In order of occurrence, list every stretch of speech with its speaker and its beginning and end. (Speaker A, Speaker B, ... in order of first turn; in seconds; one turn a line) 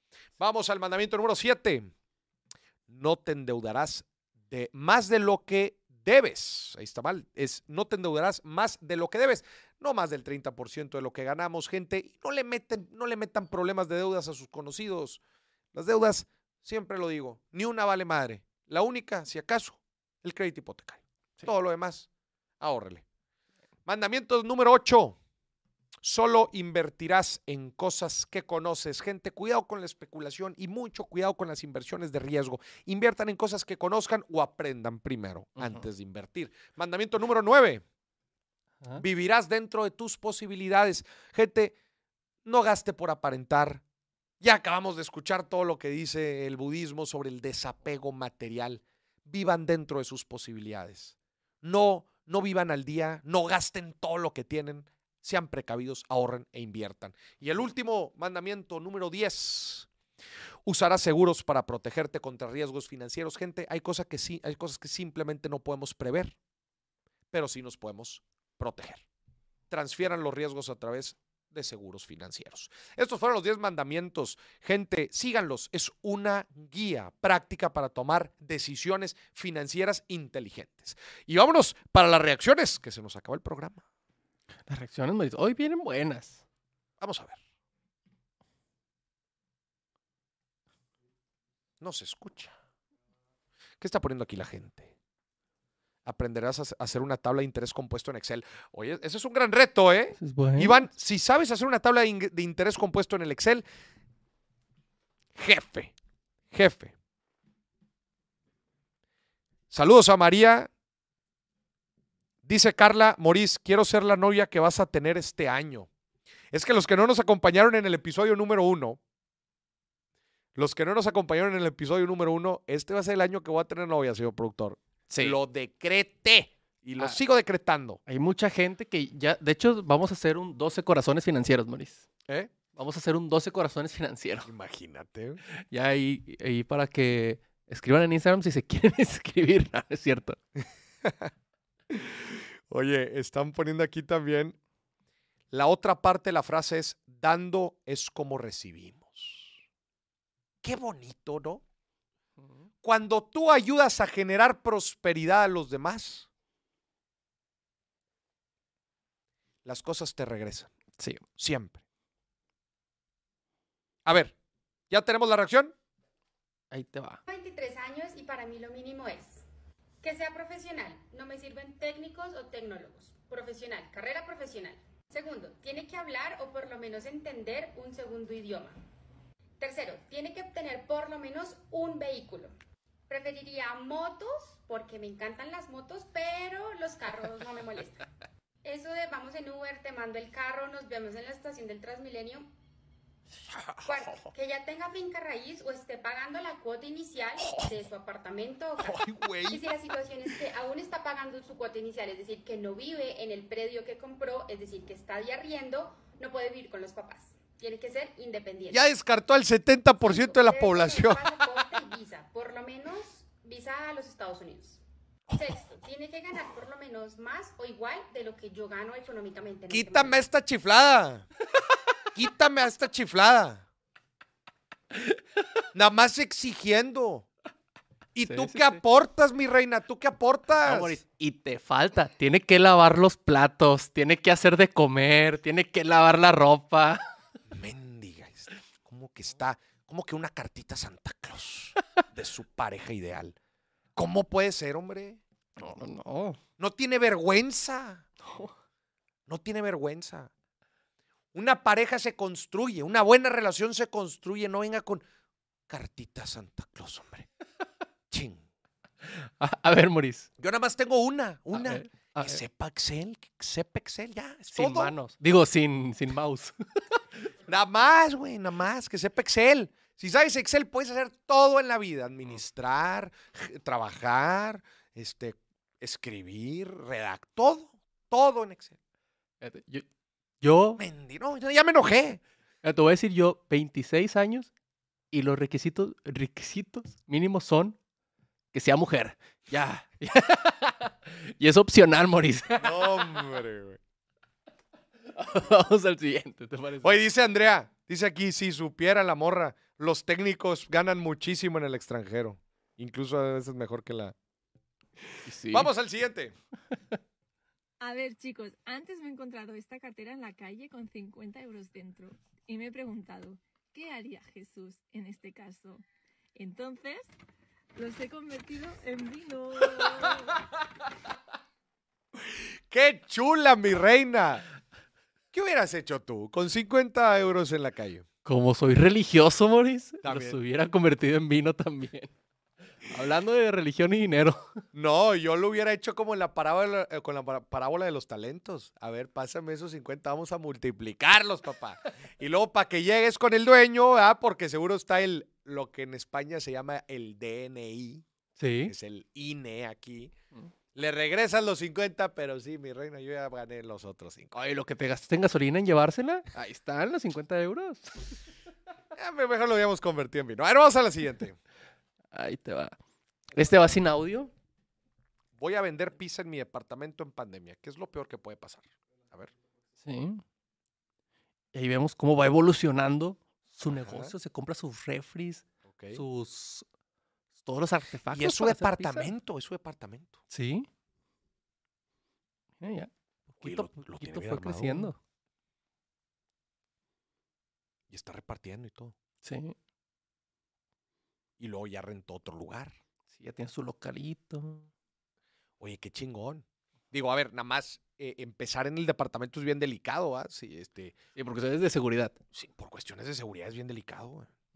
Speaker A: 0.4-1.9
Speaker A: 2.9-15.2
Speaker A: 15.7-22.1
Speaker A: 22.6-23.0
Speaker A: 23.9-25.2
Speaker A: 26.0-37.8
Speaker B: 35.6-35.8
Speaker A: 39.0-41.8
Speaker A: 42.5-43.8
Speaker A: 44.4-59.9
Speaker A: 60.7-66.4
Speaker A: 67.3-69.0
Speaker A: 69.7-83.8
Speaker B: 84.7-86.4
Speaker A: 87.0-87.4
Speaker A: 91.8-92.5
Speaker A: 93.8-94.9
Speaker A: 96.1-103.7
Speaker B: 100.2-100.8
Speaker A: 105.4-105.9
Speaker A: 106.5-106.9
Speaker A: 109.7-110.7
Speaker A: 112.5-115.9
Speaker A: 116.5-119.0
Speaker A: 120.6-128.0
Speaker B: 125.1-125.4
Speaker B: 128.1-132.1
Speaker B: 132.7-134.5
Speaker A: 134.4-135.4
Speaker B: 135.6-140.4
Speaker A: 141.1-141.3
Speaker A: 141.9-144.6
Speaker A: 145.5-149.6
Speaker A: 150.6-151.6
Speaker A: 152.8-156.3
Speaker A: 159.7-160.7
Speaker B: 161.0-161.2
Speaker A: 161.4-161.8
Speaker A: 164.1-164.3
Speaker A: 164.9-165.7
Speaker B: 166.7-167.2
Speaker C: 167.3-169.4
Speaker C: 170.0-178.8
Speaker C: 179.6-182.5
Speaker C: 183.1-188.1
Speaker C: 188.6-192.5
Speaker A: 193.8-194.3
Speaker C: 193.8-208.9
Speaker A: 197.4-197.7
Speaker A: 198.8-199.6
Speaker A: 208.7-211.3
Speaker C: 210.0-214.8
Speaker C: 215.3-220.2
Speaker A: 219.7-221.3
Speaker A: 222.2-223.7
Speaker A: 225.7-227.3
Speaker A: 228.2-231.0
Speaker B: 228.2-228.8
Speaker B: 230.7-237.0
Speaker A: 237.5-243.4
Speaker A: 244.0-245.2
Speaker B: 245.6-246.4
Speaker A: 246.6-248.1
Speaker B: 248.2-248.5
Speaker A: 249.3-250.3
Speaker A: 251.3-255.0
Speaker A: 255.7-257.3
Speaker A: 258.1-258.4
Speaker B: 259.1-260.3
Speaker A: 260.4-264.9
Speaker B: 261.5-262.4
Speaker B: 264.5-267.0
Speaker A: 267.5-278.8
Speaker B: 279.4-279.9
Speaker B: 280.4-280.8
Speaker A: 280.8-282.2
Speaker B: 282.6-284.5
Speaker B: 285.1-287.8
Speaker B: 288.5-293.0
Speaker A: 292.6-293.8
Speaker B: 295.1-297.0
Speaker A: 296.8-304.1
Speaker B: 305.2-305.7
Speaker A: 305.5-306.4
Speaker D: 307.8-315.8
Speaker D: 316.4-317.1
Speaker D: 317.8-320.4
Speaker A: 322.7-324.4
Speaker A: 325.3-328.1
Speaker B: 328.2-332.1
Speaker A: 330.0-330.4
Speaker B: 332.9-334.5
Speaker A: 334.7-348.1
Speaker B: 348.4-348.7
Speaker A: 348.6-350.1
Speaker A: 350.7-354.3
Speaker B: 354.3-358.2
Speaker A: 359.0-361.4
Speaker B: 362.1-362.8
Speaker B: 363.3-364.3
Speaker A: 365.4-369.3
Speaker B: 369.8-370.2
Speaker B: 371.5-376.7
Speaker A: 373.7-374.1
Speaker A: 375.7-376.0
Speaker B: 377.4-379.1
Speaker A: 378.1-380.2
Speaker B: 380.3-380.7
Speaker B: 382.6-385.0
Speaker A: 383.4-384.9
Speaker A: 387.9-388.9
Speaker B: 389.2-389.6
Speaker A: 391.4-392.7
Speaker B: 393.1-394.7
Speaker A: 395.6-401.0
Speaker B: 401.1-402.2
Speaker A: 402.3-404.3